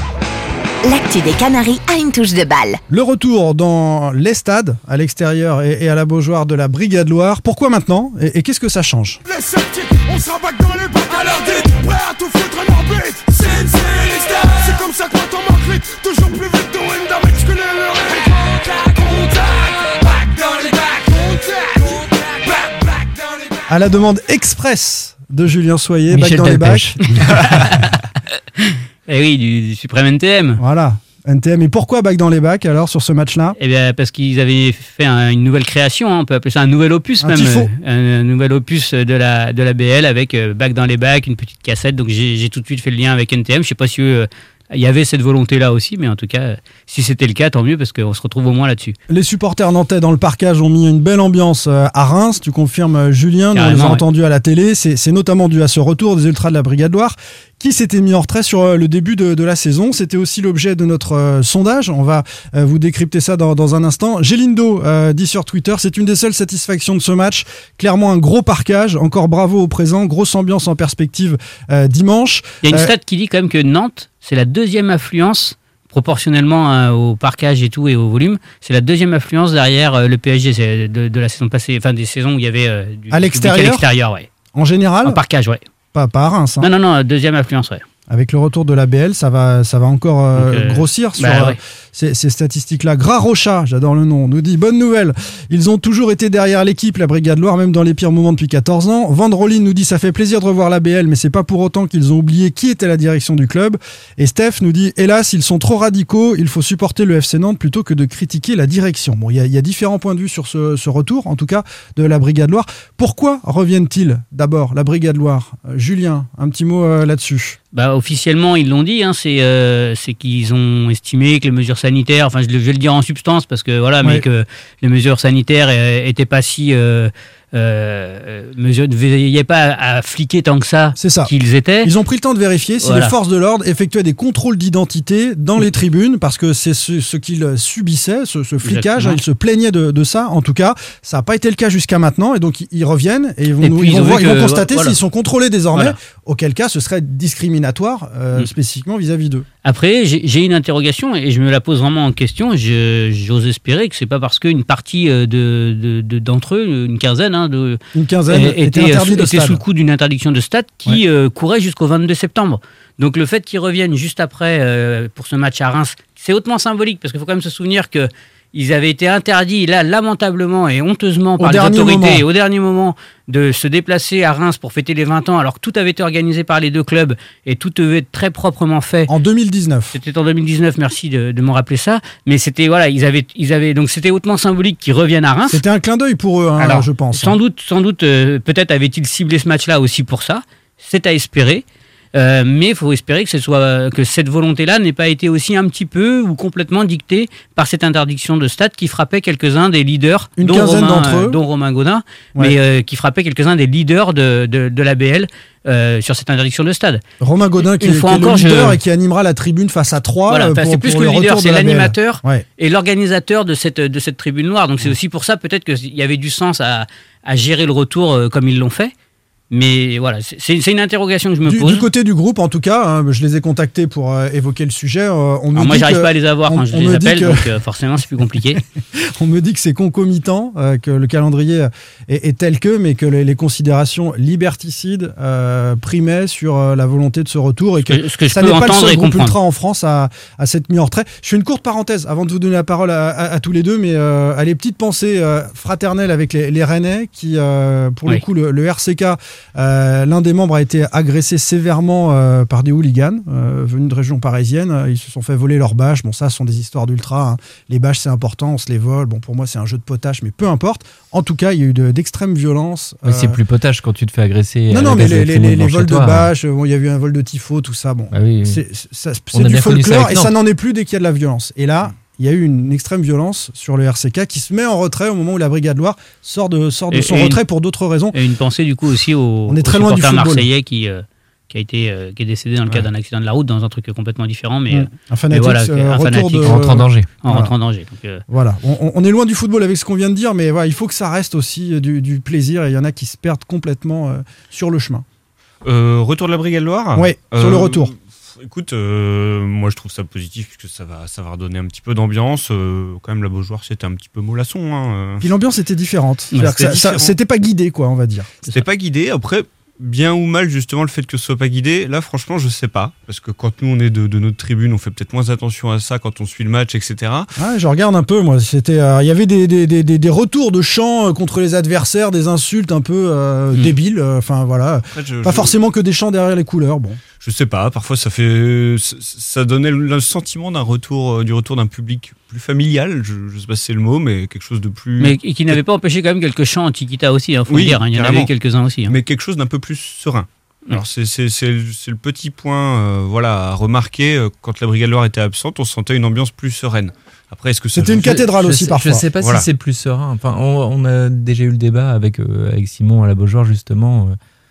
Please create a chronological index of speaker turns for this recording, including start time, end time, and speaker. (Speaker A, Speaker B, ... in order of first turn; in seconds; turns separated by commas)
Speaker A: 0.8-2.8, Speaker B: 2.9-9.2, Speaker C: 9.2-23.6, Speaker B: 23.7-27.9, Speaker D: 26.1-27.2, Speaker E: 27.2-27.9, Speaker E: 28.6-30.6, Speaker B: 30.6-33.5, Speaker E: 33.6-49.0, Speaker B: 37.2-37.7, Speaker B: 49.1-72.9, Speaker E: 53.5-54.0, Speaker E: 72.6-84.3, Speaker B: 83.1-83.8, Speaker B: 84.5-85.2, Speaker E: 85.0-85.6, Speaker B: 85.9-86.7, Speaker E: 86.6-87.8, Speaker B: 88.1-117.6, Speaker E: 90.4-91.6, Speaker E: 117.7-131.9, Speaker B: 130.9-149.4, Speaker E: 132.8-133.1, Speaker E: 138.6-139.2, Speaker E: 143.6-145.0, Speaker E: 149.6-179.1, Speaker B: 157.9-159.6, Speaker B: 171.4-172.2, Speaker B: 179.1-179.9, Speaker E: 179.9-185.6, Speaker B: 185.5-187.4, Speaker E: 186.6-207.0, Speaker B: 200.4-201.4, Speaker B: 207.2-212.4, Speaker E: 207.8-208.8, Speaker E: 210.3-218.9, Speaker E: 219.5-221.9, Speaker B: 221.4-227.5, Speaker E: 225.6-228.6, Speaker B: 229.2-263.4, Speaker E: 237.9-239.4, Speaker D: 263.1-266.3, Speaker B: 264.7-278.2, Speaker D: 268.1-268.6, Speaker D: 269.3-270.4, Speaker E: 276.9-277.4, Speaker E: 278.1-288.2, Speaker B: 279.5-280.5, Speaker B: 284.7-287.5, Speaker D: 286.4-287.1, Speaker B: 288.3-295.1, Speaker F: 295.6-305.2, Speaker B: 296.9-297.9, Speaker B: 305.2-308.3, Speaker F: 306.4-307.1, Speaker F: 308.4-317.3, Speaker B: 317.4-327.0, Speaker F: 324.9-325.6, Speaker F: 327.2-335.6, Speaker E: 335.0-339.0, Speaker F: 337.5-338.3, Speaker F: 338.9-348.3, Speaker B: 347.7-349.1, Speaker D: 348.1-354.2, Speaker F: 349.2-349.5